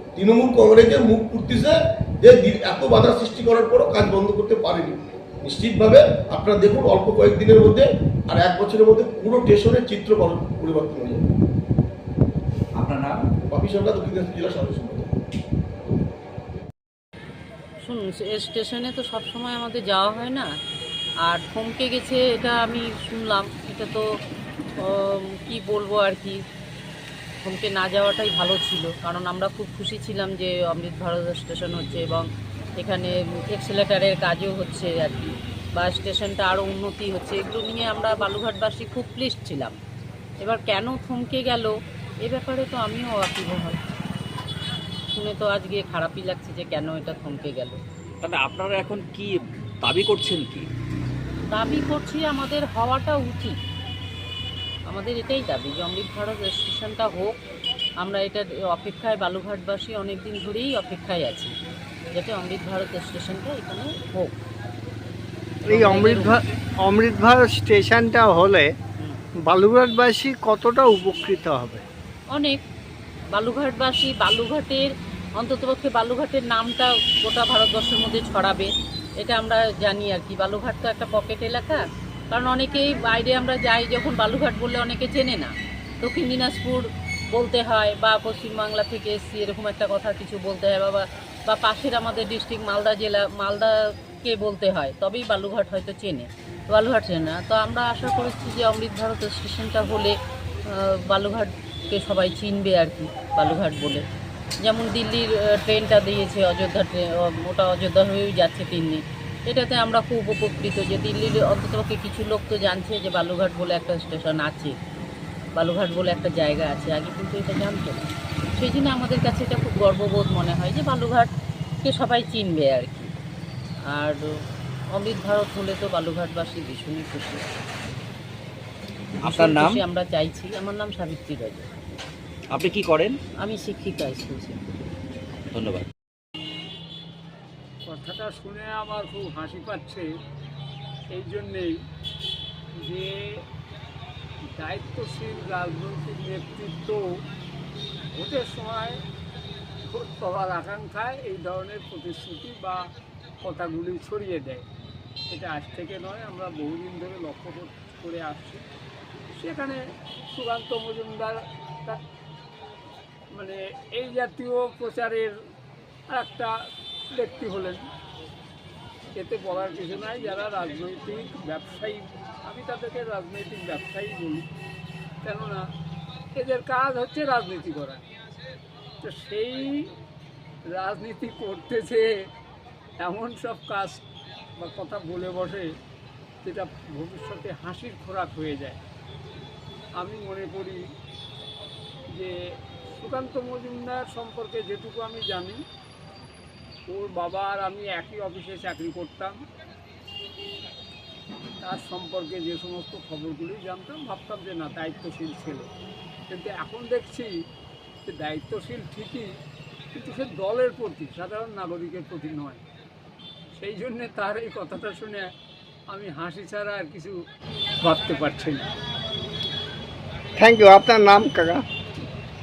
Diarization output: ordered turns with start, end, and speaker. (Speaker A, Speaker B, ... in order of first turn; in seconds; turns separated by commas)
Speaker A: 0.1-11.2, Speaker B: 12.8-13.2, Speaker A: 13.5-15.1, Speaker C: 17.8-20.5, Speaker C: 21.2-24.0, Speaker C: 24.8-26.4, Speaker C: 27.4-32.2, Speaker C: 32.8-39.7, Speaker C: 40.4-43.8, Speaker C: 45.1-47.8, Speaker B: 48.2-50.7, Speaker C: 51.5-53.5, Speaker C: 54.9-57.3, Speaker C: 58.0-61.5, Speaker C: 62.1-64.3, Speaker C: 65.7-66.4, Speaker D: 65.7-68.7, Speaker D: 69.5-71.8, Speaker C: 72.3-72.6, Speaker C: 73.3-93.7, Speaker C: 94.2-100.1, Speaker C: 100.7-104.0, Speaker C: 104.6-114.8, Speaker C: 115.5-121.3, Speaker C: 121.8-123.1, Speaker C: 123.9-124.3, Speaker C: 124.9-127.5, Speaker B: 129.2-129.8, Speaker C: 129.2-131.7, Speaker B: 132.5-133.2, Speaker C: 133.4-134.6, Speaker B: 135.5-135.9, Speaker E: 137.9-140.1, Speaker E: 141.1-141.8, Speaker E: 142.8-143.4, Speaker E: 144.6-147.1, Speaker E: 148.1-149.0, Speaker E: 149.8-152.8, Speaker E: 153.4-154.6, Speaker E: 155.3-158.6, Speaker E: 159.3-159.8, Speaker E: 160.3-162.0, Speaker E: 163.3-165.3, Speaker E: 166.1-166.5, Speaker E: 167.1-167.8, Speaker E: 169.1-174.5, Speaker E: 175.2-175.6, Speaker E: 176.3-178.0, Speaker E: 179.0-179.9, Speaker E: 180.7-182.1, Speaker E: 183.0-184.0, Speaker E: 184.6-185.7, Speaker E: 186.4-188.8, Speaker E: 190.0-190.8, Speaker E: 193.0-195.6, Speaker E: 196.9-199.4, Speaker E: 201.6-205.7, Speaker E: 206.3-207.3, Speaker E: 208.1-209.3, Speaker E: 209.9-212.6, Speaker E: 213.6-215.3, Speaker E: 215.9-217.2, Speaker E: 217.8-218.6, Speaker D: 220.4-221.6